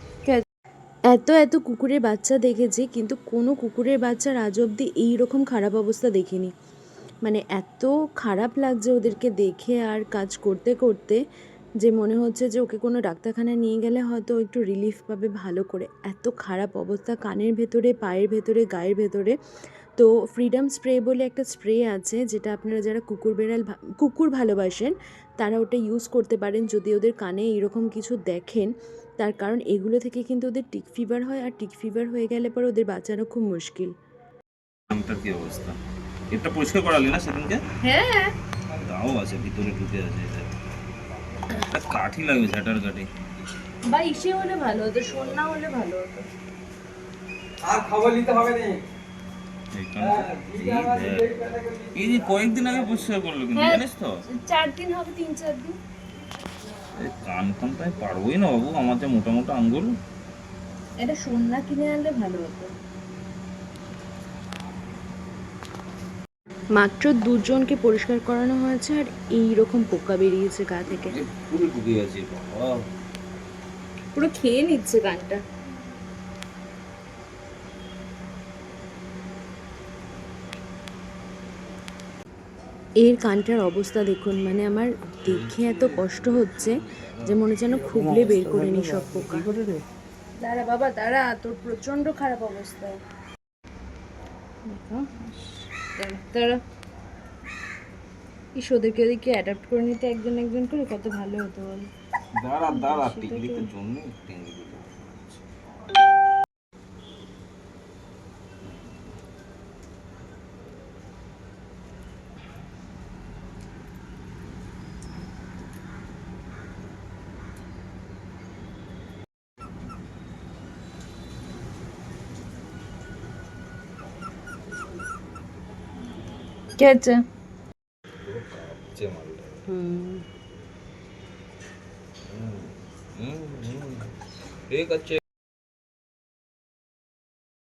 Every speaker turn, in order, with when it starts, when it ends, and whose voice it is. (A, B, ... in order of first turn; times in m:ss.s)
0:01.1-0:06.5 A
0:07.2-0:11.2 A
0:11.8-0:19.4 A
0:20.0-0:33.9 A
0:34.9-0:35.8 B
0:36.3-0:37.6 B
0:37.8-0:38.3 A
0:38.7-0:40.5 B
0:41.6-0:43.1 B
0:43.9-0:46.3 A
0:47.8-0:48.6 C
0:49.7-0:54.2 B
0:53.5-0:55.8 A
0:56.9-1:00.0 B
1:01.0-1:02.7 A
1:06.8-1:11.2 A
1:11.1-1:12.8 B
1:14.1-1:15.4 A
1:23.0-1:29.5 A
1:25.2-1:27.4 B
1:27.9-1:29.8 C
1:30.4-1:33.0 A
1:34.7-1:36.6 A
1:38.6-1:41.9 A
1:42.4-1:45.4 B
1:42.7-1:43.7 A
2:06.8-2:07.2 A
2:08.2-2:09.6 B
2:09.7-2:10.2 A
2:12.3-2:14.1 B
2:14.7-2:15.2 B